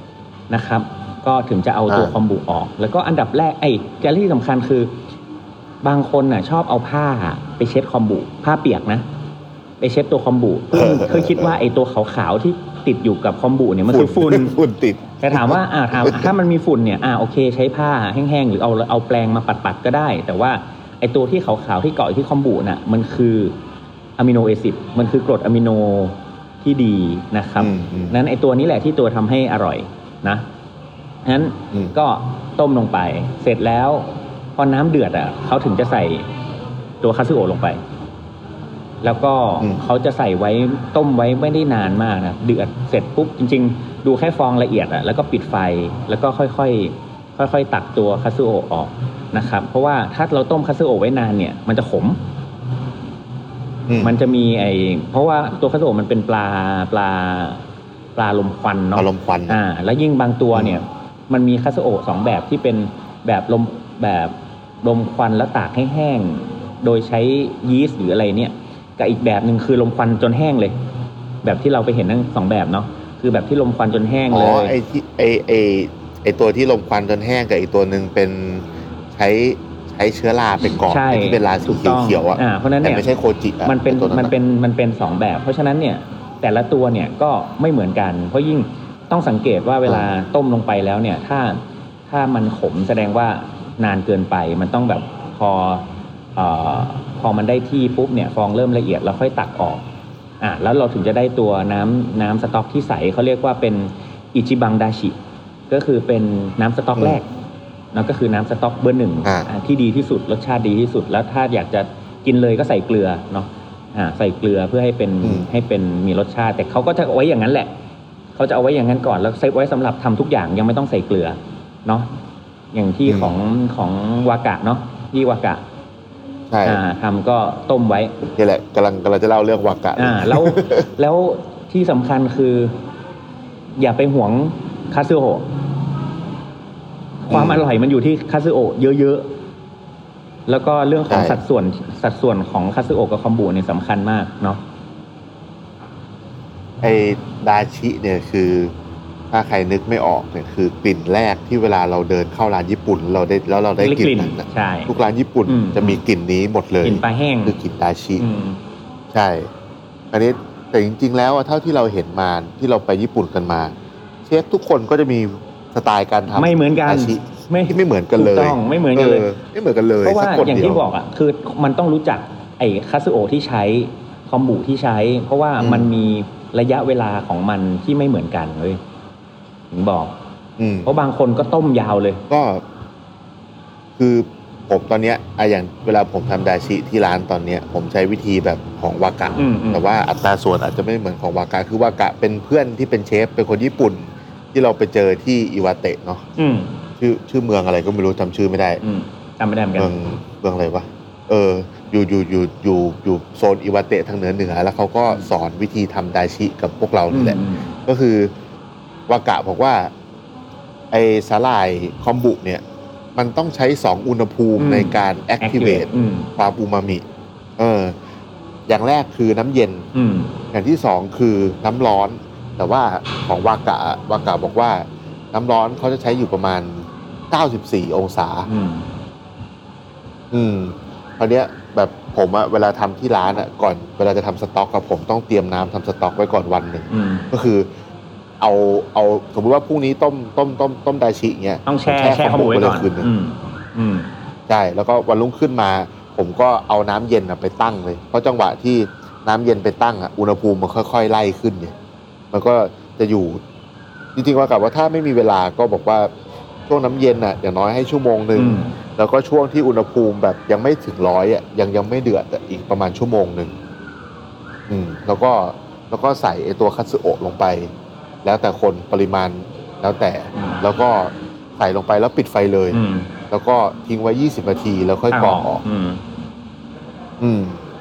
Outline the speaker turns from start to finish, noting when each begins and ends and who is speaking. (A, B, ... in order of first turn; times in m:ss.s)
0:00.5-0:04.9 A
0:01.9-0:02.1 B
0:05.8-0:09.0 A
0:09.8-0:14.6 A
0:10.7-0:11.6 B
0:13.9-0:16.3 B
0:15.2-0:23.6 A
0:24.2-0:30.4 A
0:27.6-0:28.2 B
0:31.2-0:36.3 A
0:37.0-0:37.8 A
0:39.0-0:52.2 A
0:53.9-0:54.2 B
0:54.0-0:57.6 A
0:58.2-1:10.8 A
0:59.0-0:59.6 B
1:00.5-1:00.8 B
1:11.4-1:14.8 A
1:14.3-1:24.3 B
1:20.8-1:23.1 A
1:23.6-1:35.8 A
1:29.8-1:30.1 B
1:36.4-1:39.8 A
1:40.4-1:45.2 A
1:45.7-1:47.2 A
1:47.9-1:57.7 A
1:55.2-1:55.5 B
1:58.4-2:02.1 A
2:02.7-2:05.6 A
2:03.0-2:03.4 B
2:06.5-2:06.8 B
2:06.6-2:08.2 A
2:08.4-2:10.9 B
2:10.0-2:12.8 A
2:13.8-2:15.5 A
2:17.2-2:19.3 A
2:17.3-2:17.6 B
2:20.5-2:24.6 A
2:21.1-2:21.4 B
2:26.8-2:28.7 B
2:29.3-2:38.2 B
2:33.8-2:34.9 A
2:35.5-2:36.0 A
2:36.8-2:37.5 A
2:38.2-2:38.6 A
2:39.1-2:39.5 B
2:40.1-2:43.7 B
2:44.2-2:50.8 B
2:46.3-2:49.3 A
2:50.0-2:58.8 A
2:55.6-2:55.9 B
2:59.7-3:00.2 A
3:00.6-3:00.9 B
3:00.8-3:02.2 A
3:02.3-3:02.6 B
3:04.0-3:16.2 B
3:09.4-3:09.8 A
3:16.4-3:16.7 A
3:17.0-3:18.8 B
3:18.8-3:19.9 A
3:19.8-3:28.3 B
3:27.1-3:27.7 A
3:29.1-3:29.9 B
3:30.9-3:32.6 B
3:33.2-3:37.0 B
3:34.6-3:36.3 A
3:37.6-3:38.0 B
3:38.7-3:39.8 B
3:39.9-3:40.3 A
3:40.5-3:48.5 B
3:48.5-3:48.9 A
3:50.3-3:57.7 B
3:56.9-3:57.2 A
3:58.4-4:03.1 B
4:01.7-4:04.1 A
4:04.5-4:11.8 B
4:12.3-4:13.4 B
4:14.2-4:16.1 B
4:16.7-4:23.5 B
4:18.4-4:18.7 A
4:24.7-4:27.7 B
4:28.2-4:35.6 B
4:30.3-4:30.6 A
4:32.7-4:33.1 A
4:35.1-4:36.0 A
4:37.2-4:37.6 B